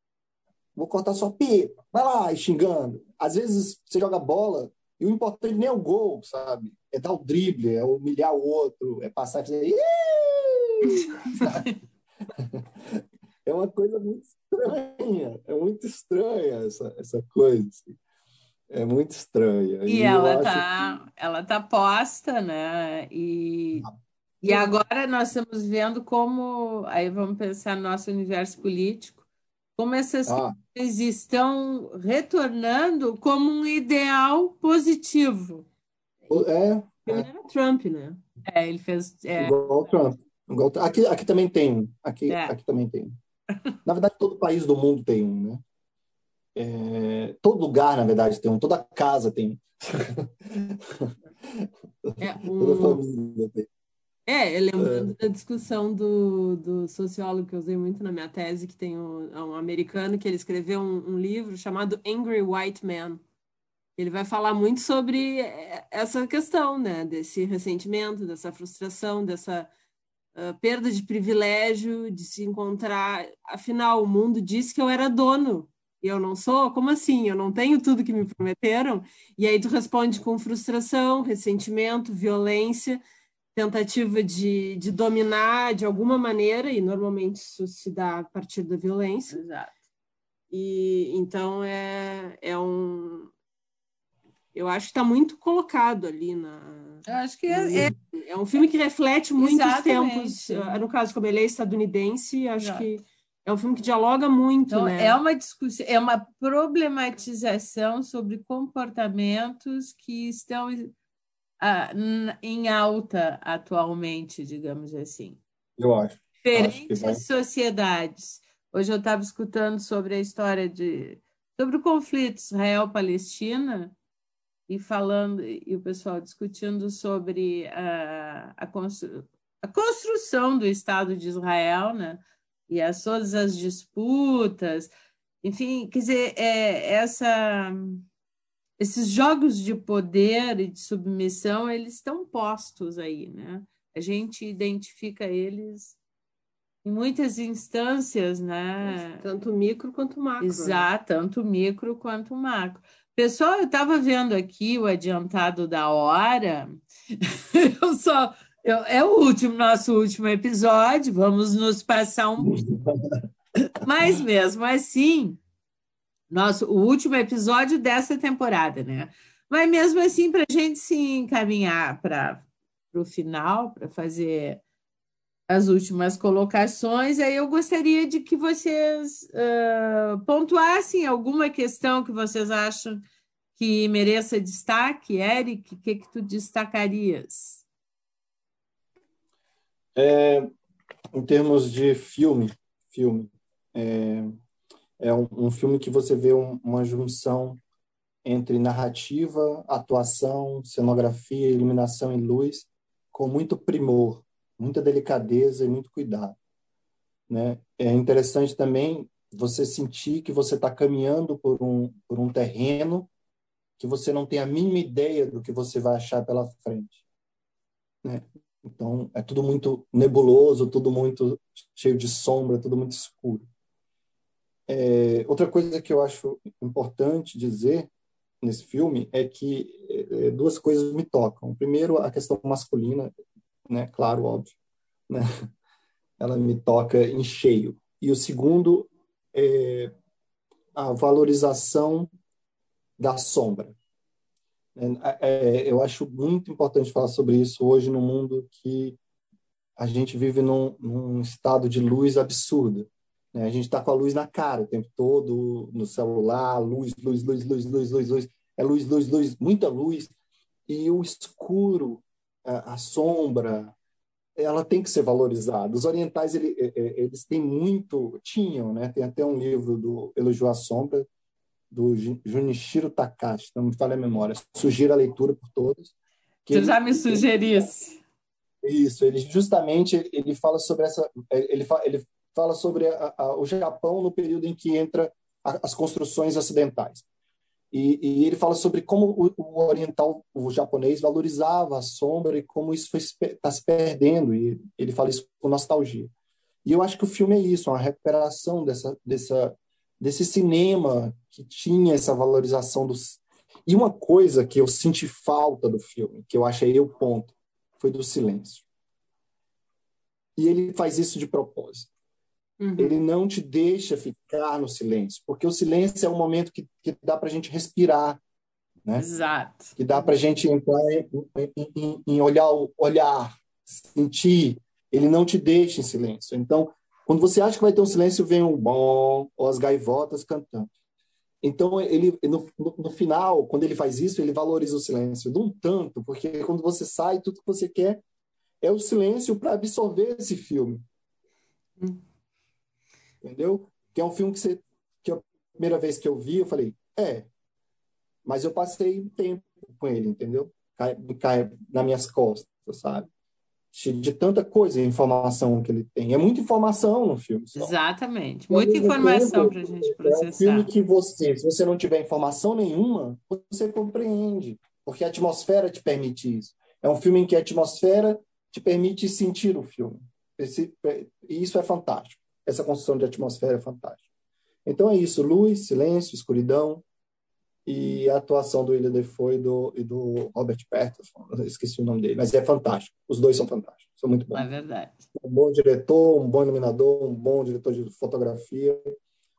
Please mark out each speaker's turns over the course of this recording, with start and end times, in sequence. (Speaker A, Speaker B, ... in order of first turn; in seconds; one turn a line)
Speaker A: 0.8-11.7
Speaker A: 12.4-18.0
Speaker A: 18.7-20.8
Speaker B: 19.9-23.9
Speaker B: 24.4-29.2
Speaker B: 29.8-35.7
Speaker A: 30.3-30.6
Speaker A: 36.3-37.3
Speaker C: 37.1-38.2
Speaker B: 38.5-39.9
Speaker A: 39.4-43.1
Speaker B: 42.3-42.5
Speaker A: 43.9-45.6
Speaker A: 46.5-53.7
Speaker B: 52.2-52.6
Speaker C: 52.5-53.0
Speaker C: 54.3-63.2
Speaker A: 54.8-55.1
Speaker C: 64.0-69.7
Speaker C: 70.3-83.0
Speaker C: 83.5-89.4
Speaker B: 89.3-89.7
Speaker C: 90.5-93.3
Speaker C: 94.5-105.2
Speaker B: 97.1-97.9
Speaker B: 99.4-100.8
Speaker B: 102.6-102.9
Speaker B: 104.7-110.9
Speaker B: 111.6-115.4
Speaker A: 115.8-117.2
Speaker B: 116.4-123.9
Speaker B: 124.7-134.9
Speaker B: 135.4-138.1
Speaker B: 138.8-146.0
Speaker B: 146.8-149.2
Speaker C: 148.8-150.9
Speaker B: 150.4-162.6
Speaker A: 162.4-163.2
Speaker B: 163.8-165.4
Speaker B: 166.3-174.6
Speaker B: 175.5-183.0
Speaker B: 183.6-187.6
Speaker A: 190.0-190.5
Speaker A: 191.1-194.3
Speaker A: 195.0-197.6
Speaker A: 198.2-206.3
Speaker A: 207.3-213.1
Speaker A: 213.8-217.0
Speaker A: 218.0-223.5
Speaker A: 224.7-227.9
Speaker A: 228.4-233.1
Speaker A: 233.7-234.6
Speaker A: 236.2-239.9
Speaker A: 240.8-242.1
Speaker A: 243.0-243.8
Speaker A: 244.8-249.0
Speaker A: 249.8-260.1
Speaker A: 260.7-263.7
Speaker A: 264.4-271.1
Speaker A: 271.7-275.9
Speaker A: 276.4-277.4
Speaker B: 276.5-278.0
Speaker A: 278.6-287.1
Speaker A: 287.7-296.1
Speaker A: 296.6-308.7
Speaker A: 310.4-311.9
Speaker C: 312.6-313.0
Speaker A: 312.8-318.2
Speaker B: 319.0-319.7
Speaker A: 319.8-330.7
Speaker A: 331.4-338.0
Speaker A: 338.6-340.8
Speaker A: 343.2-347.3
Speaker A: 348.2-353.1
Speaker A: 353.7-357.7
Speaker B: 357.6-360.7
Speaker A: 358.5-374.0
Speaker A: 374.7-376.8
Speaker A: 377.7-384.5
Speaker B: 384.3-385.1
Speaker A: 385.2-388.9